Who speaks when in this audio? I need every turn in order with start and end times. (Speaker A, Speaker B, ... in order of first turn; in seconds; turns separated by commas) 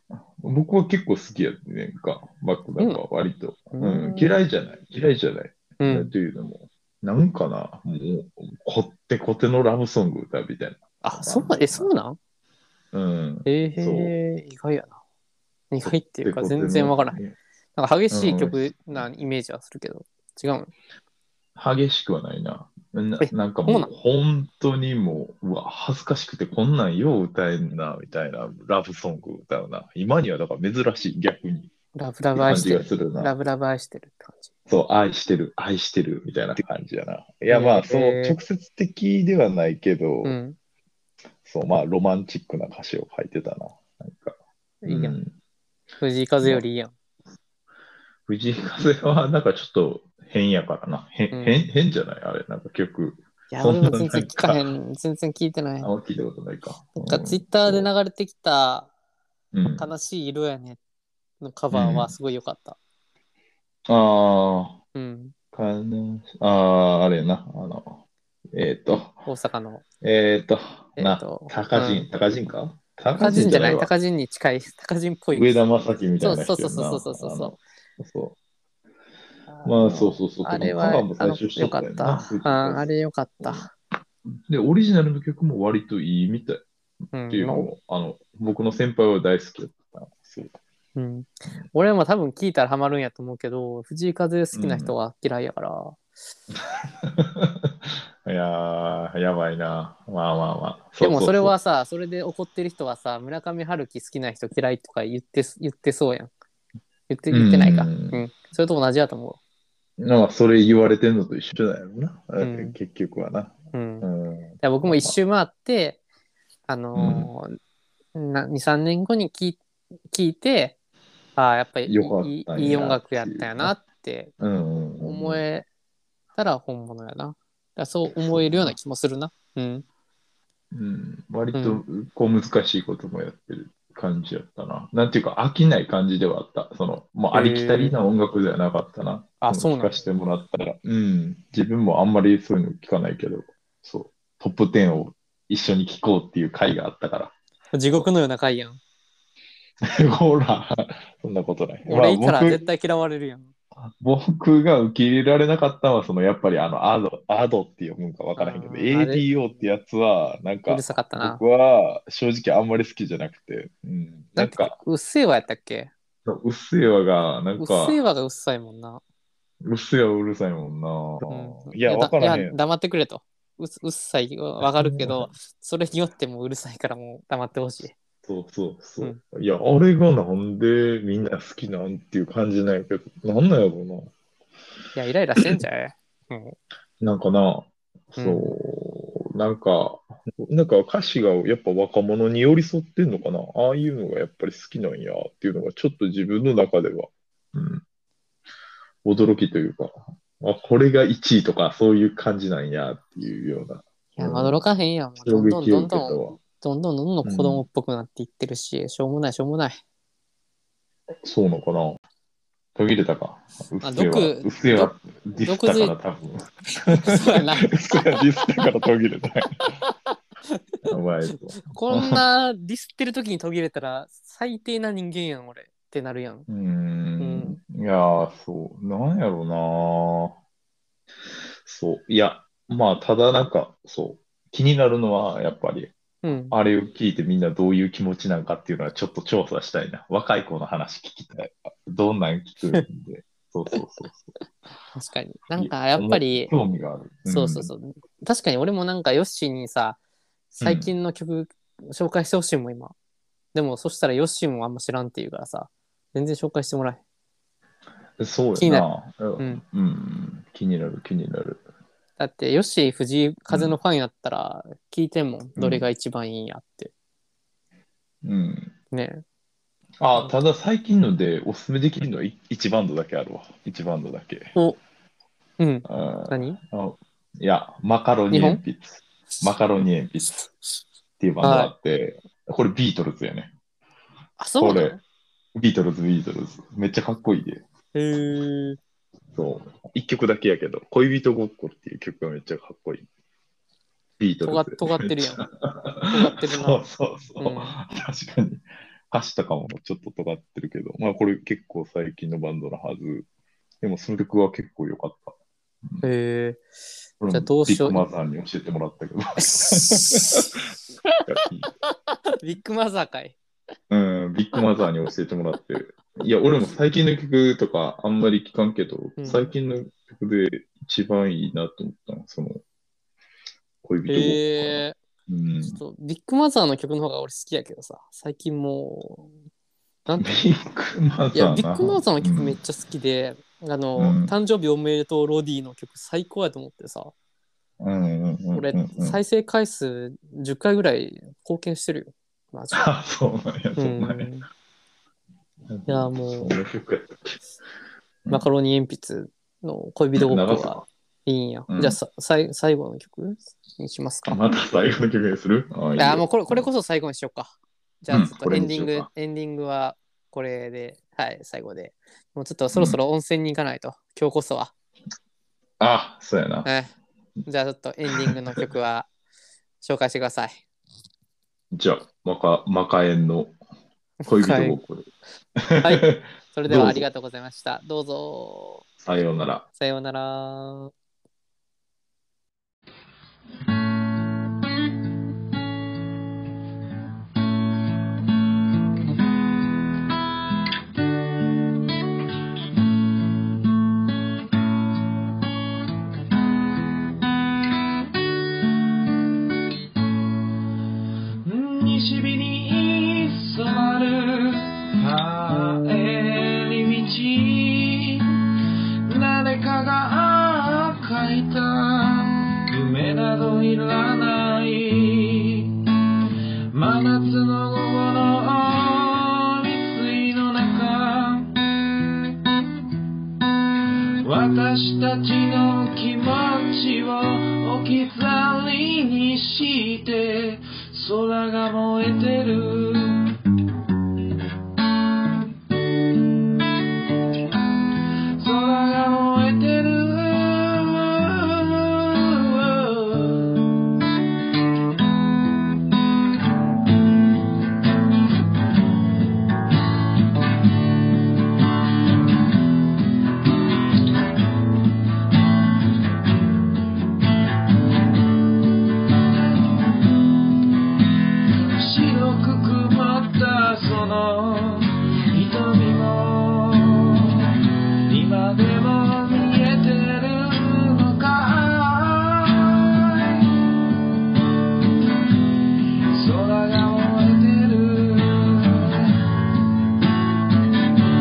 Speaker A: 0.4-11.9, Speaker B: 3.7-4.3, Speaker B: 5.8-6.1, Speaker B: 11.0-12.2, Speaker A: 12.9-14.1, Speaker B: 13.4-15.0, Speaker B: 15.7-17.2, Speaker A: 15.8-17.4, Speaker B: 17.8-20.7, Speaker A: 18.1-19.1, Speaker A: 21.6-31.7, Speaker B: 23.2-23.9, Speaker B: 31.9-34.5, Speaker A: 32.4-33.3, Speaker A: 34.7-40.4, Speaker B: 37.5-38.4, Speaker B: 40.2-40.6, Speaker A: 41.4-45.3, Speaker B: 44.8-45.2, Speaker B: 46.0-46.9, Speaker A: 48.3-54.6, Speaker B: 51.3-51.6, Speaker B: 53.5-55.9, Speaker A: 55.8-57.9, Speaker B: 56.9-58.9, Speaker A: 59.5-59.9, Speaker B: 59.7-60.8, Speaker B: 61.4-62.8, Speaker A: 61.7-62.1, Speaker A: 63.9-64.8, Speaker B: 64.9-65.3, Speaker A: 65.5-68.0, Speaker A: 68.5-69.3, Speaker B: 69.2-69.8, Speaker A: 70.0-73.9, Speaker B: 71.0-72.1, Speaker B: 73.2-75.6, Speaker A: 75.3-78.3, Speaker B: 76.2-77.6, Speaker B: 79.5-83.7, Speaker A: 79.7-82.9, Speaker A: 83.4-83.7, Speaker A: 84.3-86.7, Speaker B: 87.1-87.7, Speaker A: 87.3-90.6, Speaker B: 90.9-96.0, Speaker A: 94.5-94.9, Speaker A: 96.7-101.6, Speaker B: 101.0-106.3, Speaker B: 107.1-109.4, Speaker A: 107.3-108.2, Speaker A: 110.0-115.2, Speaker B: 112.4-112.8, Speaker B: 113.7-114.1, Speaker B: 114.6-116.0, Speaker B: 116.7-117.6, Speaker A: 116.9-117.3, Speaker B: 118.1-119.6, Speaker B: 120.1-120.8, Speaker B: 121.3-124.3, Speaker A: 121.8-123.8, Speaker A: 124.4-125.4, Speaker B: 125.0-125.7, Speaker B: 126.3-129.8, Speaker A: 128.1-128.8, Speaker A: 130.7-147.3, Speaker B: 131.5-131.8, Speaker B: 137.3-138.0, Speaker B: 139.4-139.9, Speaker B: 147.7-148.8, Speaker A: 149.8-152.6, Speaker B: 151.9-153.5, Speaker A: 153.8-164.8, Speaker B: 158.4-159.2, Speaker B: 160.7-161.4, Speaker B: 164.3-165.9, Speaker A: 166.3-168.0, Speaker B: 167.6-169.0, Speaker A: 169.6-172.6, Speaker B: 171.3-177.9, Speaker A: 174.6-175.3, Speaker A: 178.2-184.1, Speaker B: 184.9-186.6, Speaker A: 187.0-197.8, Speaker B: 188.2-188.5, Speaker A: 199.0-204.6, Speaker B: 204.2-209.8, Speaker A: 205.2-206.4, Speaker A: 207.2-207.7, Speaker A: 211.2-212.0, Speaker A: 212.7-219.7, Speaker B: 213.8-215.9, Speaker B: 216.9-218.0, Speaker B: 219.8-226.5, Speaker A: 220.8-222.2, Speaker A: 226.5-230.3, Speaker B: 227.2-227.6, Speaker A: 231.6-244.3, Speaker B: 236.2-236.6, Speaker B: 244.9-246.5, Speaker A: 245.6-247.7, Speaker B: 247.3-250.0, Speaker B: 250.5-252.9, Speaker A: 250.6-250.9, Speaker B: 253.5-257.0, Speaker A: 258.2-261.6, Speaker B: 258.6-258.9, Speaker B: 262.2-266.9, Speaker A: 263.5-263.8, Speaker A: 265.6-265.9, Speaker A: 268.2-268.7, Speaker B: 268.9-269.2, Speaker A: 270.0-274.5, Speaker B: 275.6-276.6, Speaker A: 275.9-280.4, Speaker B: 278.3-278.6, Speaker A: 281.2-283.5, Speaker B: 281.4-281.7, Speaker B: 284.4-285.0, Speaker A: 284.6-285.0, Speaker A: 285.5-287.6, Speaker B: 287.9-288.8, Speaker A: 289.3-293.1, Speaker A: 294.2-303.3, Speaker B: 294.4-295.4, Speaker B: 296.1-296.9, Speaker B: 297.4-297.8, Speaker A: 303.8-305.3, Speaker B: 306.0-306.6, Speaker A: 307.2-310.6, Speaker B: 307.3-308.1, Speaker B: 309.4-310.5, Speaker B: 311.1-311.3, Speaker A: 311.3-311.7, Speaker B: 311.9-313.4, Speaker A: 313.9-322.6, Speaker B: 319.2-319.5, Speaker A: 323.8-325.8, Speaker B: 324.1-324.9, Speaker B: 325.7-329.3, Speaker B: 330.1-330.3, Speaker A: 330.2-332.6, Speaker B: 331.3-337.1, Speaker A: 334.0-334.3, Speaker A: 337.8-339.2, Speaker B: 338.5-342.9, Speaker A: 342.7-344.3, Speaker B: 343.8-344.5, Speaker A: 345.7-347.4, Speaker B: 345.9-346.6, Speaker B: 348.3-354.4, Speaker A: 350.1-350.9, Speaker A: 351.7-352.0, Speaker A: 354.3-356.7, Speaker B: 356.0-364.7, Speaker A: 358.1-359.1, Speaker A: 362.7-363.0, Speaker A: 365.8-366.7, Speaker B: 366.6-366.9, Speaker B: 367.4-369.1, Speaker B: 369.8-370.6, Speaker A: 371.7-373.6, Speaker B: 374.2-374.8, Speaker A: 374.2-375.1, Speaker A: 375.6-377.1, Speaker B: 375.8-378.9, Speaker A: 379.0-379.6, Speaker B: 379.8-380.9, Speaker C: 401.4-408.3, Speaker C: 409.1-415.7, Speaker C: 416.7-421.6, Speaker C: 424.2-433.3, Speaker C: 438.4-443.6, Speaker C: 461.5-473.4, Speaker C: 476.1-479.2